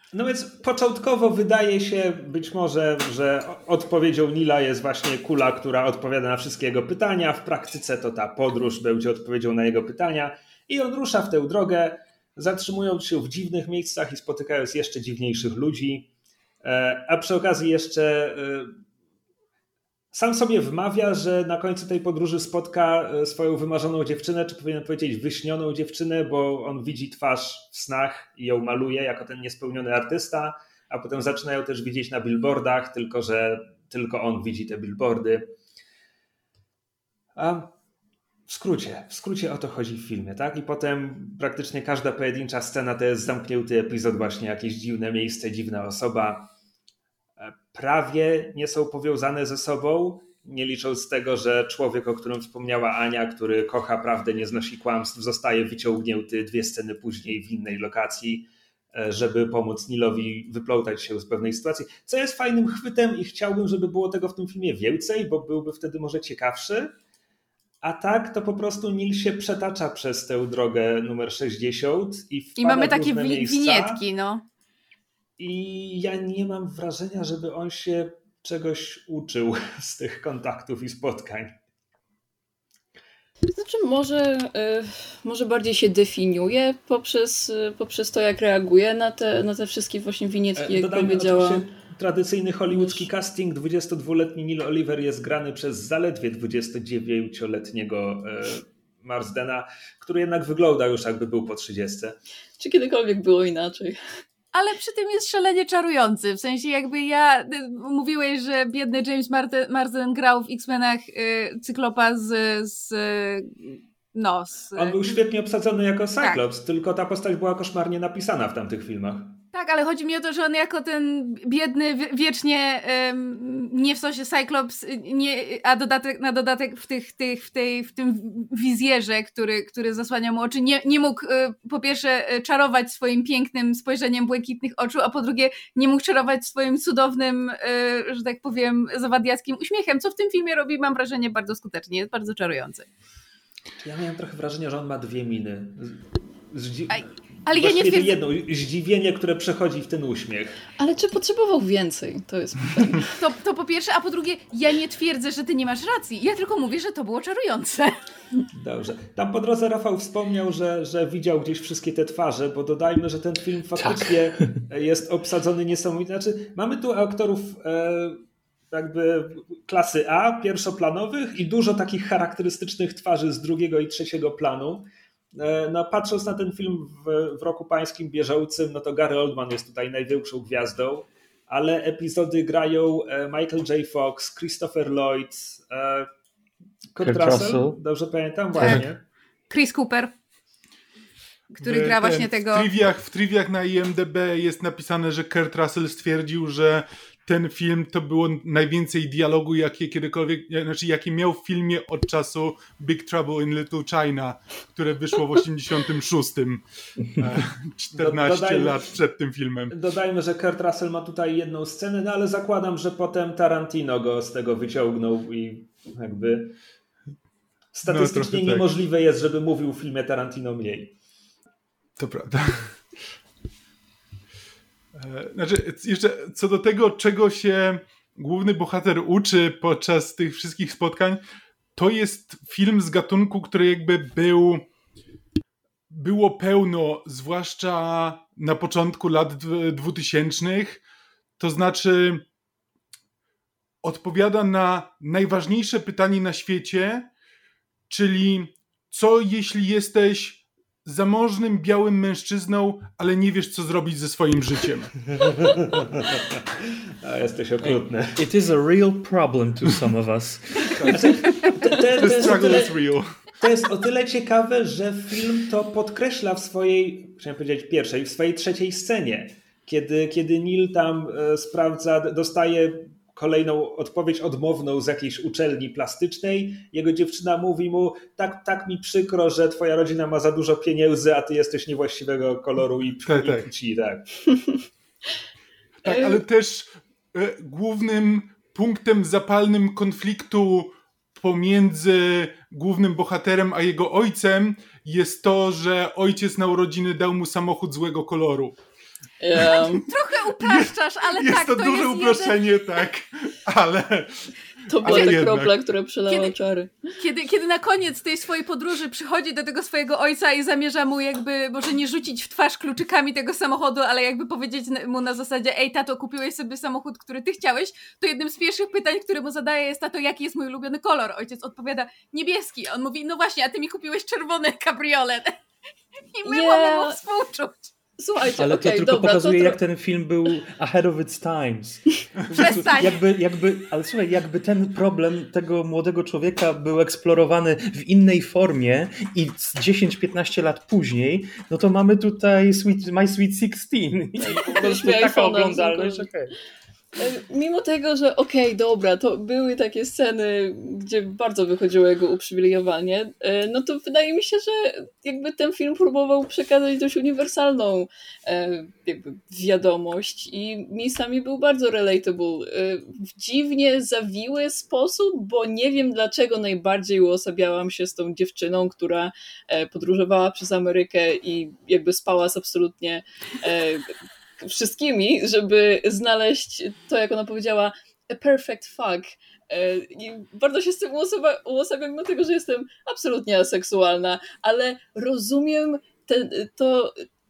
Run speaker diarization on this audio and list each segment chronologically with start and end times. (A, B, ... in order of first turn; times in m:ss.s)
0:00.1-0:16.1 A
0:16.6-0:18.8 A
0:20.1-0:35.5 A
0:37.4-0:37.7 A
0:38.5-0:46.5 A
0:47.4-1:06.9 A
1:07.8-1:14.0 A
1:12.6-1:14.4 B
1:15.4-1:21.6 A
1:23.5-1:31.6 C
1:30.6-1:42.2 A
1:32.8-1:33.0 C
1:42.6-1:44.0 C
1:44.5-1:55.2 B
1:54.7-1:59.4 A
1:59.5-2:22.9 B
2:23.8-2:30.6 A
2:26.9-2:28.2 B
2:30.8-2:33.1 C
2:33.2-2:38.0 B
2:38.5-3:06.1 A
2:43.8-2:44.1 D
3:06.9-3:09.0 A
3:07.0-3:07.8 D
3:08.6-3:08.9 D
3:09.5-3:10.1 B
3:11.6-3:12.7 B
3:11.6-3:29.7 E
3:27.9-3:28.9 A
3:29.7-3:36.6 A
3:37.7-3:40.9 A
3:37.8-3:38.7 E
3:42.0-3:42.8 E
3:44.9-3:51.2 E
3:51.8-3:54.7 E
3:55.9-4:00.8 E
4:01.4-4:02.2 E
4:03.8-4:07.1 E
4:07.9-4:14.9 E
4:15.2-4:18.2 A
4:17.6-4:21.3 D
4:20.9-4:22.8 A
4:21.9-4:23.1 E
4:23.4-4:44.4 A
4:43.0-4:43.5 E
4:45.8-4:58.6 E
4:45.9-4:46.2 C
4:59.2-4:59.8 C
4:59.4-5:05.6 E
4:59.8-5:02.6 B
5:04.7-5:06.7 C
5:04.8-5:05.2 B
5:06.1-5:06.3 B
5:07.0-5:25.4 B
5:26.1-5:27.7 B
5:26.2-5:27.0 C
5:28.0-5:29.6 C
5:28.3-5:46.3 D
5:32.3-5:33.0 B
5:44.2-5:46.1 C
5:47.0-6:27.0 C